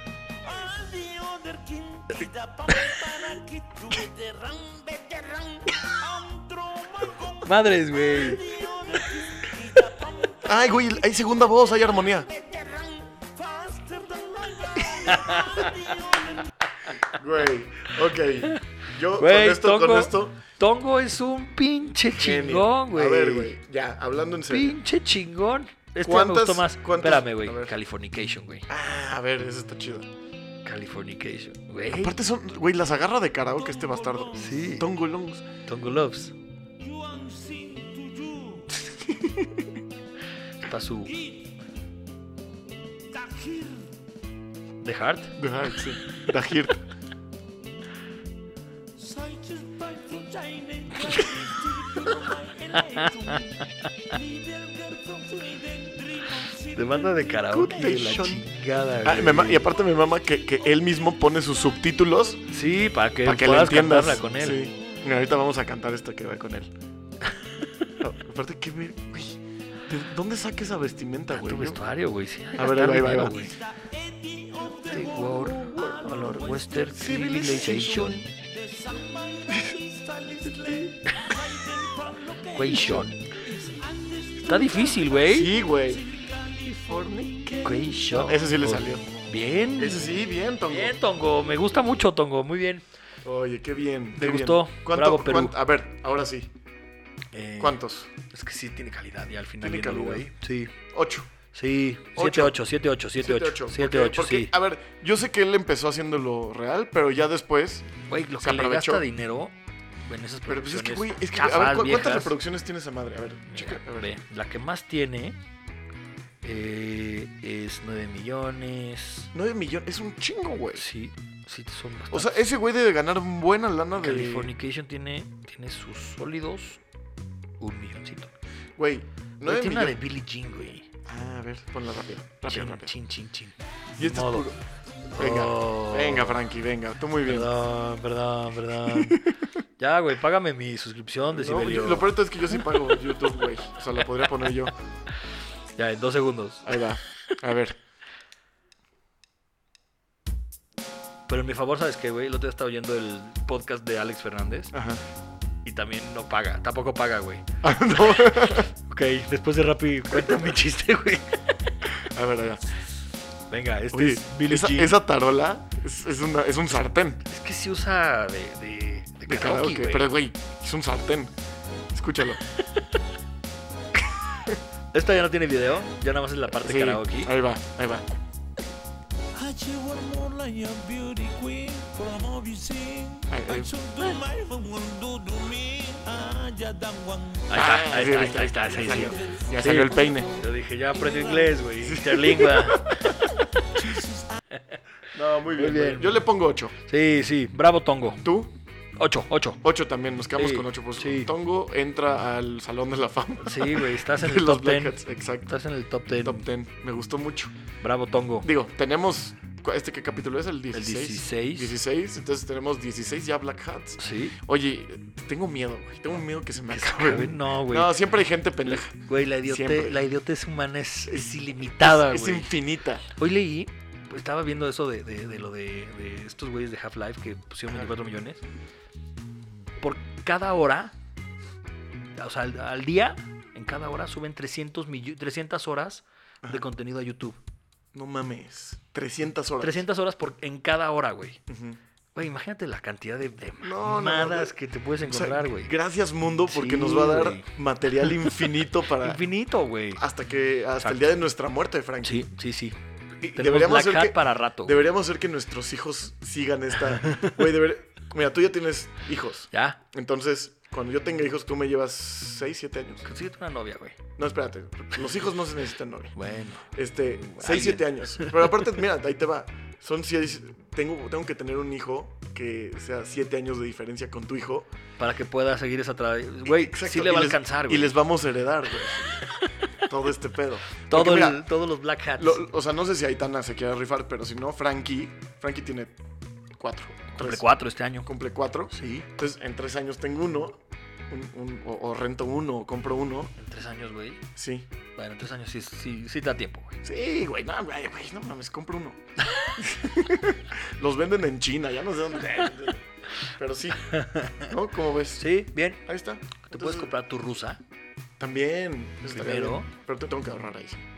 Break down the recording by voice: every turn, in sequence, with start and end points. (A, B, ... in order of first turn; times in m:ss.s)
0:00.4-0:10.8 A
0:02.7-0:03.0 B
0:07.4-0:09.5 B
0:10.4-0:12.3 C
0:12.3-0:16.5 A
0:15.0-0:15.9 B
0:17.1-0:20.4 C
0:18.4-0:23.5 B
0:22.0-0:24.8 C
0:24.5-0:28.7 B
0:26.0-0:27.7 C
0:28.7-0:30.1 C
0:30.6-0:32.2 B
0:31.9-0:35.4 C
0:33.6-0:34.6 A
0:34.4-0:34.9 B
0:35.6-0:36.3 B
0:36.8-0:38.8 A
0:39.0-0:39.7 C
0:40.6-0:41.2 B
0:41.1-0:41.5 A
0:43.1-0:44.0 A
0:44.8-0:45.4 B
0:45.4-0:46.8 C
0:49.0-0:57.4 A
0:52.7-0:54.1 B
0:56.5-0:59.6 B
0:57.5-0:58.5 C
0:59.0-1:02.4 C
1:02.5-1:04.7 B
1:03.2-1:06.7 C
1:07.3-1:07.9 B
1:08.0-1:11.8 C
1:11.3-1:13.5 B
1:12.6-1:13.5 C
1:13.5-1:28.2 A
1:14.9-1:18.2 B
1:16.9-1:18.2 C
1:22.5-1:23.3 B
1:22.7-1:23.1 C
1:24.4-1:25.5 B
1:25.2-1:26.1 C
1:26.6-1:29.0 C
1:27.6-1:32.8 B
1:29.8-1:31.0 C
1:33.2-1:36.5 C
1:34.2-1:35.5 B
1:37.3-1:40.7 B
1:37.6-1:38.1 C
1:39.6-1:40.3 C
1:40.9-1:41.3 C
1:41.5-1:44.5 B
1:42.2-1:42.6 C
1:43.2-1:49.0 C
1:48.1-1:49.5 B
1:50.0-1:52.3 B
1:50.5-1:54.1 C
1:53.5-1:55.4 B
1:56.4-1:59.3 B
1:59.3-2:00.8 C
2:00.7-2:02.3 B
2:02.1-2:04.5 C
2:04.0-2:06.8 B
2:07.6-2:08.3 B
2:08.8-2:10.0 C
2:09.4-2:10.9 B
2:11.0-2:12.9 C
2:12.4-2:14.5 B
2:14.0-2:14.6 C
2:15.1-2:16.4 B
2:15.2-2:17.5 C
2:17.2-2:19.3 B
2:18.8-2:19.3 C
2:19.8-2:22.1 B
2:21.3-2:24.7 C
2:25.8-2:27.4 B
2:26.6-2:27.8 C
2:31.3-2:34.7 B
2:34.7-2:35.0 C
2:35.6-2:37.4 B
2:37.6-2:38.7 C
2:38.4-2:41.8 B
2:40.1-2:40.5 C
2:42.0-2:42.6 C
2:43.5-2:45.0 B
2:43.9-2:47.2 C
2:47.3-2:50.1 B
2:49.3-2:51.3 C
2:51.9-2:52.4 C
2:54.9-2:57.3 B
2:56.5-2:58.0 C
2:59.3-3:07.5 A
3:03.3-3:03.7 C
3:07.5-3:13.2 B
3:07.5-3:10.3 C
3:09.2-3:09.4 A
3:10.0-3:10.4 A
3:10.9-3:11.6 A
3:11.8-3:13.4 C
3:13.7-3:14.4 A
3:14.5-3:14.8 B
3:15.1-3:16.7 C
3:15.5-3:16.2 B
3:16.8-3:18.2 B
3:18.2-3:18.5 C
3:19.0-3:19.6 B
3:19.6-3:25.5 C
3:20.4-3:21.3 B
3:23.4-3:26.4 B
3:26.2-3:27.5 C
3:27.8-3:28.5 B
3:28.4-3:40.0 C
3:30.7-3:31.7 B
3:34.0-3:34.4 B
3:36.7-3:37.9 B
3:39.0-3:42.6 B
3:41.6-3:43.1 C
3:43.1-3:48.4 B
3:49.8-3:50.9 B
3:52.1-3:57.4 B
3:57.9-3:59.8 C
3:59.6-4:01.4 B
4:01.5-4:01.8 C
4:02.1-4:05.7 B
4:03.6-4:04.5 C
4:05.1-4:09.2 C
4:06.5-4:08.4 B
4:09.0-4:10.0 B
4:09.9-4:12.3 C
4:10.8-4:11.1 B
4:12.0-4:12.8 B
4:13.2-4:23.0 C
4:13.3-4:14.8 B
4:19.5-4:19.8 B
4:23.0-4:24.0 B
4:24.2-4:26.1 C
4:26.1-4:26.7 B
4:26.7-4:34.7 C
4:27.2-4:28.4 B
4:35.0-4:38.0 B
4:36.4-4:39.2 C
4:39.2-4:39.9 B
4:39.8-4:41.4 C
4:40.8-4:42.4 B
4:42.2-4:45.9 C
4:46.6-4:47.4 C
4:47.2-4:48.1 B
4:48.0-4:53.3 C
4:48.7-4:49.1 B
4:53.4-4:54.2 B
4:54.4-4:54.7 C
4:55.0-4:56.8 B
4:56.8-4:59.0 C
4:59.2-4:59.6 B
4:59.6-5:05.3 C
5:03.8-5:04.5 B
5:05.2-5:05.8 B
5:05.8-5:06.9 C
5:06.4-5:07.6 B
5:08.2-5:10.8 C
5:09.1-5:09.7 B